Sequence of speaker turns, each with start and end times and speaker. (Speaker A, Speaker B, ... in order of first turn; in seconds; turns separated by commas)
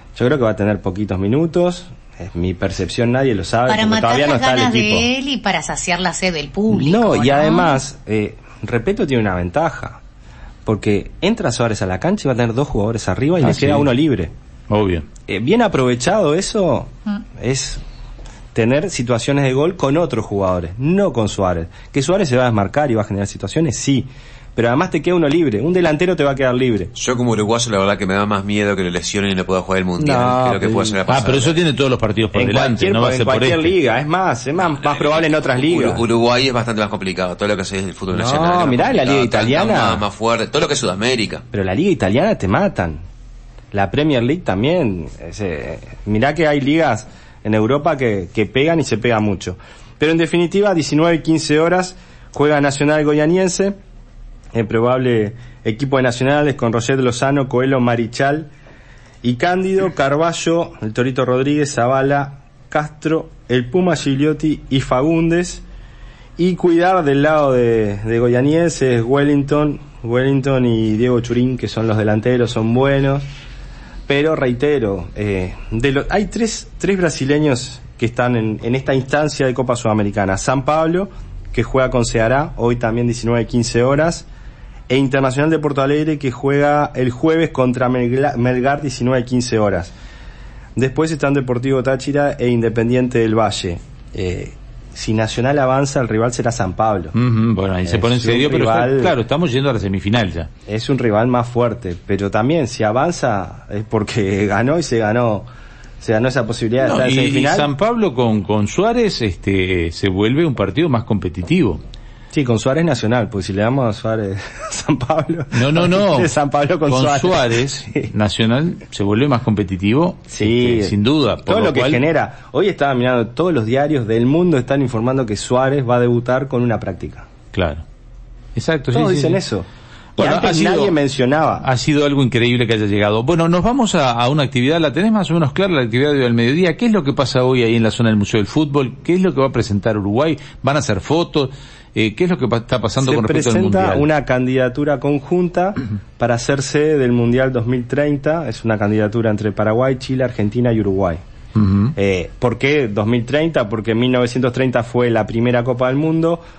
Speaker A: 0.1-5.1, Speaker B: 3.7-7.8, Speaker A: 6.7-10.0, Speaker A: 10.6-14.3, Speaker C: 13.4-13.9, Speaker C: 14.7-15.1, Speaker A: 15.3-17.8, Speaker A: 18.5-26.9, Speaker D: 26.9-31.6, Speaker A: 30.0-31.0, Speaker C: 31.1-33.7, Speaker A: 32.3-36.0, Speaker D: 34.8-41.4, Speaker A: 38.1-40.0, Speaker A: 41.5-43.0, Speaker A: 43.7-53.7, Speaker A: 54.5-58.5, Speaker A: 59.2-65.6, Speaker A: 66.4-73.2, Speaker A: 74.1-84.3, Speaker A: 84.9-89.9, Speaker A: 90.8-97.1, Speaker C: 97.1-100.5, Speaker A: 97.8-99.2, Speaker A: 100.7-105.5, Speaker A: 106.0-107.7, Speaker C: 106.8-111.8, Speaker A: 112.3-118.1, Speaker C: 115.5-116.3, Speaker C: 116.9-122.0, Speaker A: 120.3-127.2, Speaker C: 127.5-127.8, Speaker C: 128.6-129.4, Speaker A: 128.9-131.7, Speaker C: 130.2-130.9, Speaker C: 131.6-144.1, Speaker A: 143.0-151.2, Speaker C: 151.6-151.9, Speaker A: 151.9-156.4